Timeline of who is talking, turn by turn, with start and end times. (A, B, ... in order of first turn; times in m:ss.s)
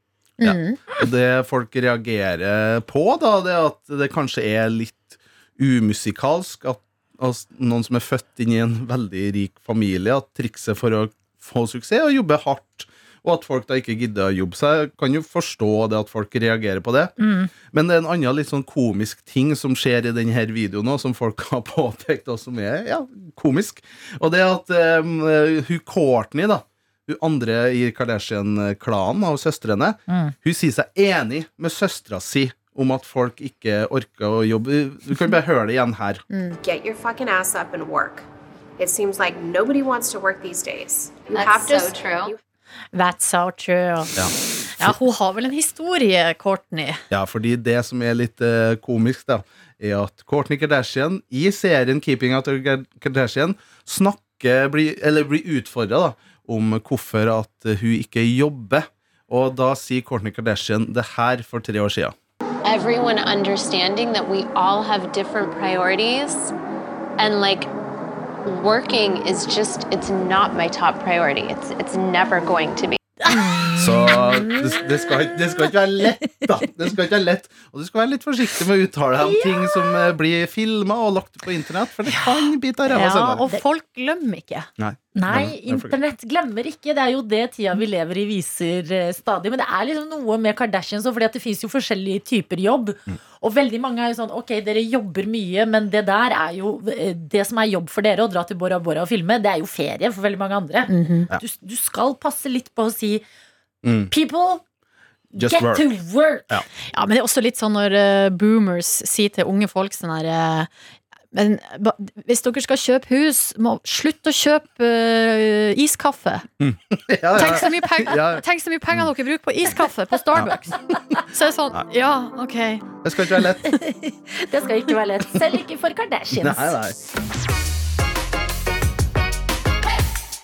0:00.4-0:00.8 A
0:00.4-0:17.2 B
0:17.2-0:17.5 C
0:17.7-0:36.2 B
0:36.6-0:38.3 D
0:38.8-0:42.3 D
0:41.3-0:42.4 E
0:42.9-0:47.0 A
0:44.2-0:45.0 B
0:47.1-1:02.1 B
1:02.6-1:06.5 E
1:07.2-1:07.7 E
1:08.4-1:13.0 E
1:13.3-1:14.1 A
1:13.3-1:15.1 C
1:13.8-1:23.4 B
1:19.2-1:20.1 C
1:22.1-1:22.5 C
1:22.9-1:24.7 A
1:24.8-1:25.9 B
1:25.2-1:43.2 C
1:40.9-1:41.3 A
1:43.8-1:44.1 B
1:44.1-1:44.6 C
1:45.4-1:46.6 C
1:45.4-1:45.9 B
1:46.9-1:50.7 A
1:51.3-1:56.4 A
1:56.6-1:59.1 B
1:57.4-2:03.0 A
2:00.3-2:00.6 B
2:00.4-2:01.0 C
2:03.0-2:03.8 B
2:03.6-2:06.8 C
2:06.3-2:07.0 B